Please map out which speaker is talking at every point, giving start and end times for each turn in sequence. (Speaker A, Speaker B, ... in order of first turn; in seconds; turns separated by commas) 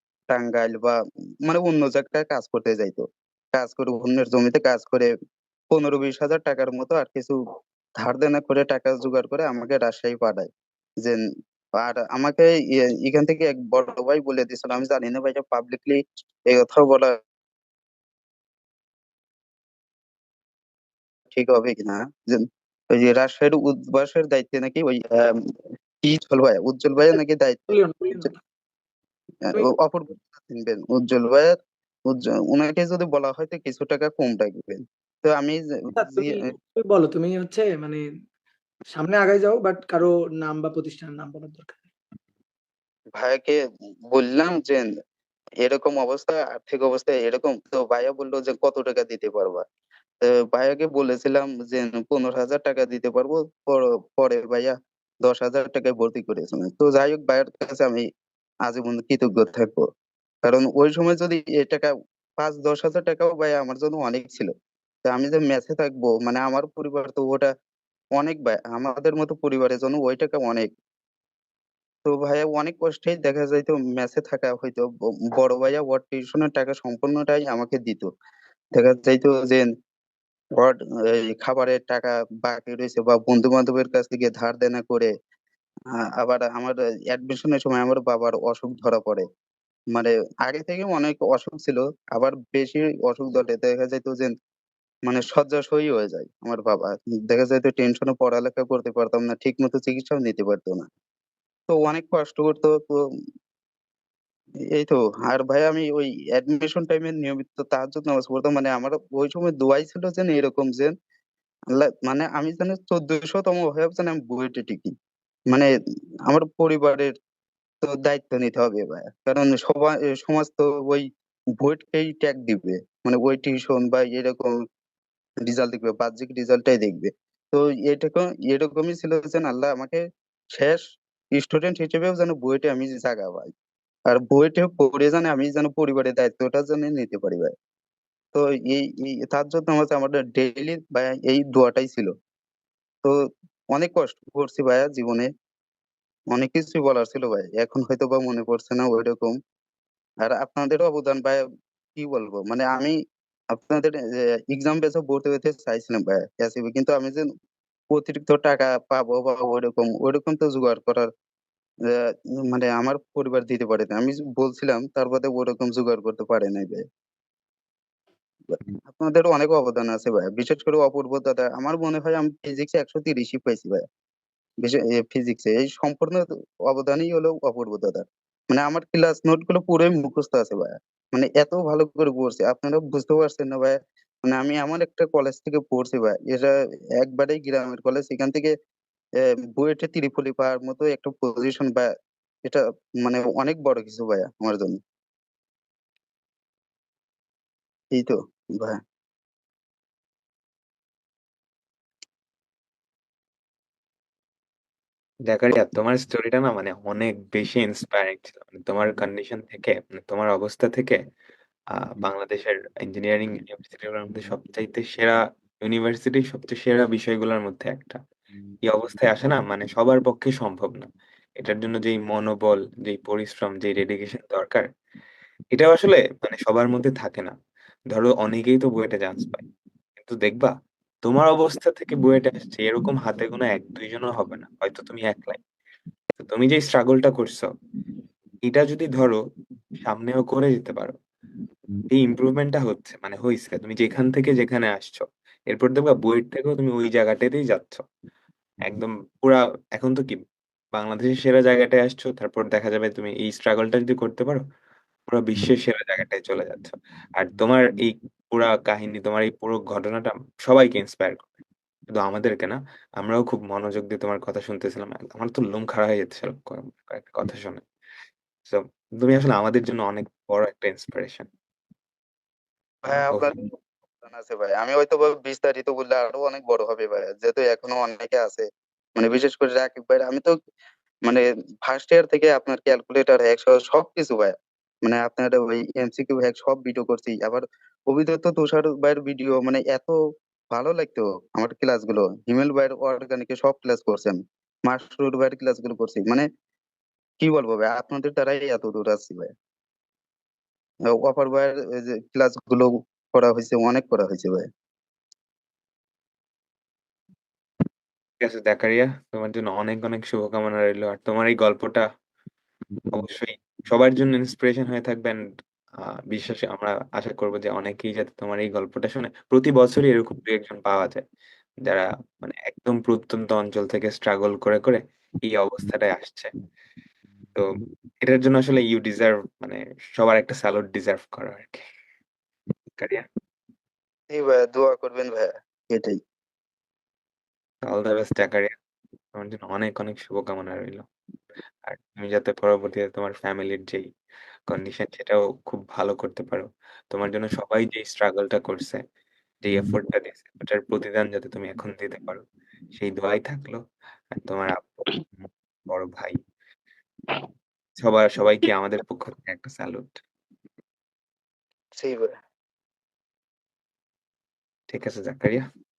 Speaker A: 0.3-5.1, Speaker A: 5.7-7.4, Speaker A: 8.0-10.5, Speaker A: 11.8-17.1, Speaker A: 21.3-25.4, Speaker A: 26.0-28.3, Speaker B: 27.7-28.4, Speaker A: 29.4-31.6, Speaker A: 32.1-36.4, Speaker B: 36.0-38.0, Speaker B: 38.9-41.9, Speaker A: 43.2-43.6, Speaker A: 44.1-44.9, Speaker A: 45.6-49.6, Speaker A: 50.2-58.1, Speaker A: 58.6-59.9, Speaker A: 60.4-64.5, Speaker A: 65.0-67.5, Speaker A: 68.2-70.7, Speaker A: 72.1-78.1, Speaker A: 78.8-79.7, Speaker A: 80.6-85.1, Speaker A: 86.2-89.3, Speaker A: 89.9-94.3, Speaker A: 95.1-100.9, Speaker A: 101.7-103.0, Speaker A: 104.8-110.9, Speaker A: 111.7-114.9, Speaker A: 116.3-117.1, Speaker A: 117.8-121.1, Speaker A: 121.6-124.6, Speaker A: 125.5-130.0, Speaker A: 130.5-130.8, Speaker A: 131.3-133.5, Speaker A: 134.1-137.5, Speaker A: 138.3-142.1, Speaker A: 143.7-145.3, Speaker A: 146.3-149.4, Speaker A: 150.2-153.0, Speaker A: 153.5-157.3, Speaker A: 157.9-161.1, Speaker A: 162.5-166.8, Speaker A: 168.6-173.8, Speaker A: 174.6-188.5, Speaker A: 189.6-191.9, Speaker A: 192.5-194.8, Speaker A: 197.9-198.8, Speaker C: 205.3-211.0, Speaker C: 211.7-218.0, Speaker C: 218.7-224.6, Speaker C: 225.5-227.3, Speaker C: 227.9-229.4, Speaker C: 230.0-230.5, Speaker C: 231.0-235.4, Speaker C: 236.2-237.5, Speaker C: 238.4-239.2, Speaker C: 239.8-240.9, Speaker C: 241.9-247.8, Speaker C: 248.7-250.2, Speaker C: 250.8-254.4, Speaker C: 255.1-261.3, Speaker C: 261.9-267.6, Speaker C: 268.5-271.3, Speaker A: 272.9-273.3, Speaker C: 273.1-273.3, Speaker A: 274.0-278.5, Speaker A: 279.0-280.4, Speaker A: 281.1-290.0, Speaker A: 290.5-296.3, Speaker A: 297.2-299.3, Speaker A: 301.0-304.5, Speaker C: 308.2-311.8, Speaker C: 312.9-315.2, Speaker C: 316.1-321.0, Speaker C: 321.7-326.3, Speaker C: 328.0-331.6, Speaker C: 332.8-333.1, Speaker A: 334.1-336.0, Speaker C: 337.6-338.5, Speaker C: 339.2-340.9, Speaker C: 341.6-343.9, Speaker C: 344.5-348.8, Speaker C: 349.4-353.6, Speaker C: 354.1-356.1, Speaker C: 357.8-360.0, Speaker A: 361.8-362.1, Speaker C: 364.7-365.4